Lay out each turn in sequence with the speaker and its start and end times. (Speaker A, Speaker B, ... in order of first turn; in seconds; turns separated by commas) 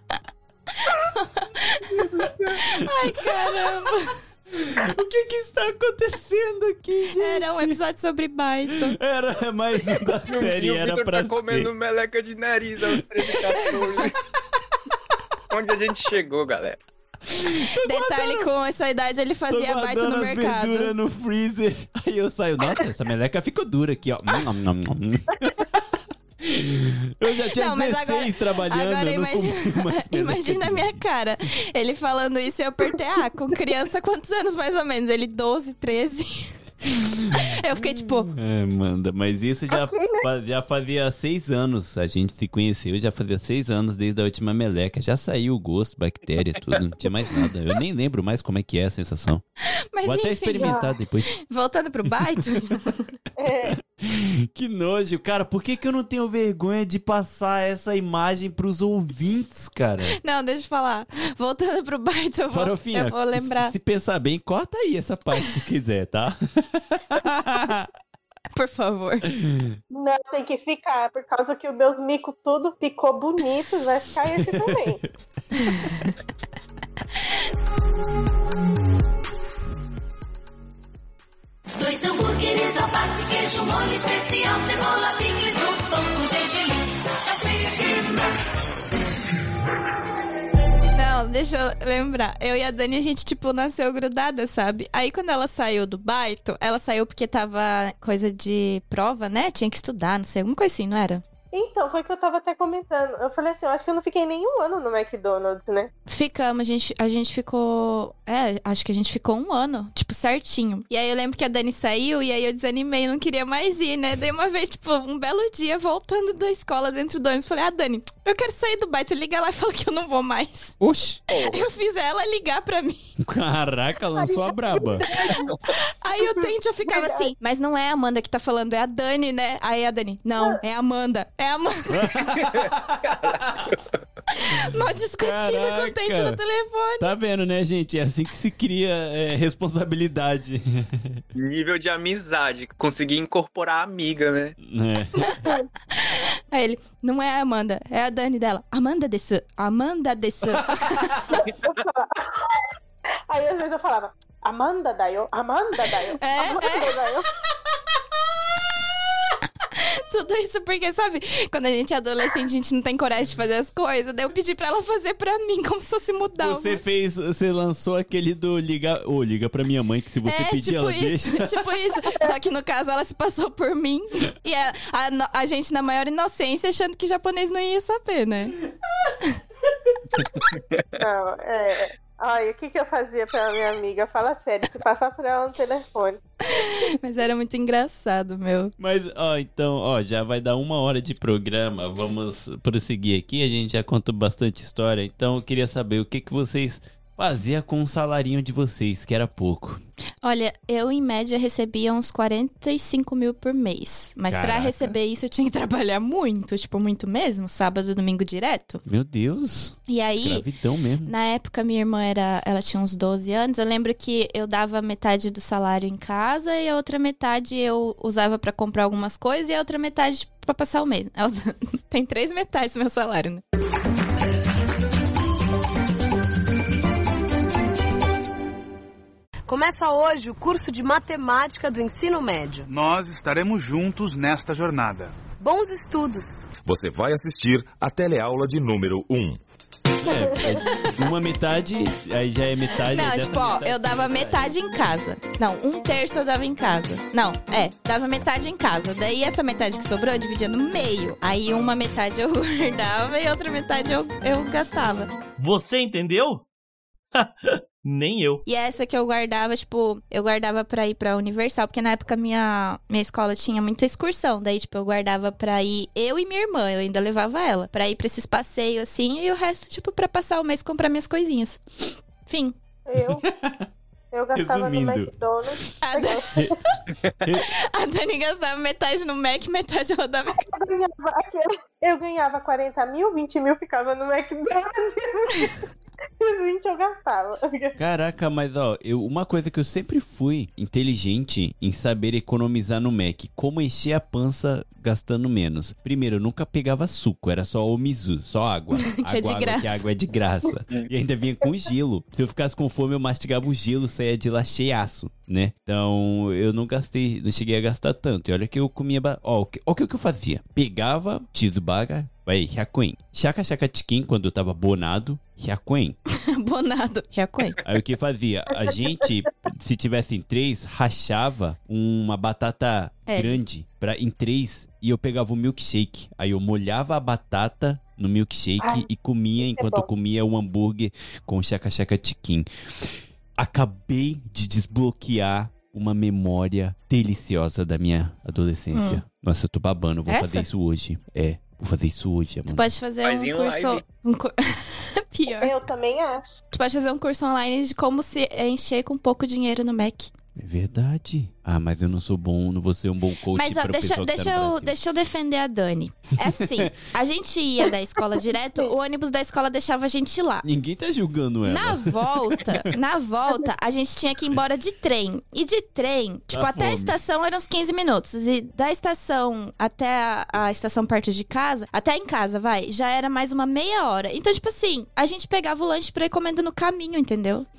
Speaker A: 0.8-4.2, Speaker B: 2.2-3.7, Speaker B: 4.5-7.8, Speaker A: 7.2-9.0, Speaker B: 8.7-11.7, Speaker C: 10.3-14.2, Speaker B: 12.8-14.2, Speaker C: 15.5-16.8, Speaker B: 17.3-18.5, Speaker A: 17.8-20.9, Speaker B: 19.5-31.0, Speaker A: 27.6-36.6, Speaker B: 36.8-49.4, Speaker A: 37.3-38.3, Speaker D: 39.7-40.3, Speaker A: 49.9-50.8, Speaker B: 50.0-51.3, Speaker D: 50.6-50.9, Speaker A: 51.5-53.1, Speaker D: 53.4-53.8, Speaker B: 54.0-60.2, Speaker A: 60.2-63.8, Speaker B: 62.5-67.9, Speaker A: 68.5-69.3, Speaker B: 69.3-69.8, Speaker D: 69.9-75.0, Speaker B: 74.3-75.1, Speaker A: 75.6-76.1, Speaker E: 81.8-88.2, Speaker A: 90.9-101.2, Speaker D: 101.5-105.9, Speaker A: 106.1-123.1, Speaker B: 120.8-121.2, Speaker C: 121.3-121.7, Speaker B: 123.2-125.2, Speaker D: 124.2-125.6, Speaker A: 125.7-132.3, Speaker D: 126.2-127.3, Speaker B: 131.9-133.7, Speaker C: 132.4-134.0, Speaker A: 134.3-137.1, Speaker B: 134.6-136.4, Speaker B: 137.0-141.2, Speaker C: 141.3-144.6, Speaker B: 144.6-145.5, Speaker A: 145.2-151.4, Speaker B: 150.5-151.2, Speaker D: 151.3-152.7, Speaker D: 153.3-157.3, Speaker A: 156.2-157.1, Speaker A: 159.7-166.8, Speaker B: 166.4-171.8, Speaker A: 170.2-178.6, Speaker C: 180.3-180.8, Speaker D: 181.0-186.7, Speaker A: 186.5-188.7, Speaker B: 188.8-199.8, Speaker A: 200.2-208.8, Speaker B: 204.3-204.9, Speaker B: 208.8-211.1, Speaker A: 209.9-210.5, Speaker A: 211.1-223.4, Speaker F: 229.5-232.7, Speaker G: 232.7-235.1, Speaker F: 235.4-236.5, Speaker H: 236.6-239.4, Speaker B: 240.0-244.5, Speaker A: 242.9-255.1, Speaker I: 255.4-256.4, Speaker I: 257.1-258.4, Speaker A: 258.5-272.6, Speaker D: 272.9-273.2, Speaker B: 273.0-273.7, Speaker D: 274.1-276.5, Speaker B: 274.3-275.1, Speaker A: 275.8-276.7, Speaker B: 277.2-277.5, Speaker A: 277.3-280.5, Speaker D: 280.4-285.6, Speaker D: 286.2-287.8, Speaker B: 287.8-316.0, Speaker A: 298.9-299.8, Speaker A: 316.1-317.6, Speaker B: 317.6-342.7, Speaker A: 323.1-323.4, Speaker D: 328.6-328.9, Speaker D: 329.4-329.9, Speaker A: 338.7-339.0, Speaker A: 340.1-340.5, Speaker A: 342.5-345.5, Speaker C: 343.0-343.8, Speaker D: 345.4-346.4, Speaker A: 346.5-350.1, Speaker B: 350.4-354.7, Speaker A: 353.3-360.4, Speaker B: 356.2-356.7, Speaker B: 360.4-362.7, Speaker A: 361.4-377.5, Speaker B: 366.3-366.9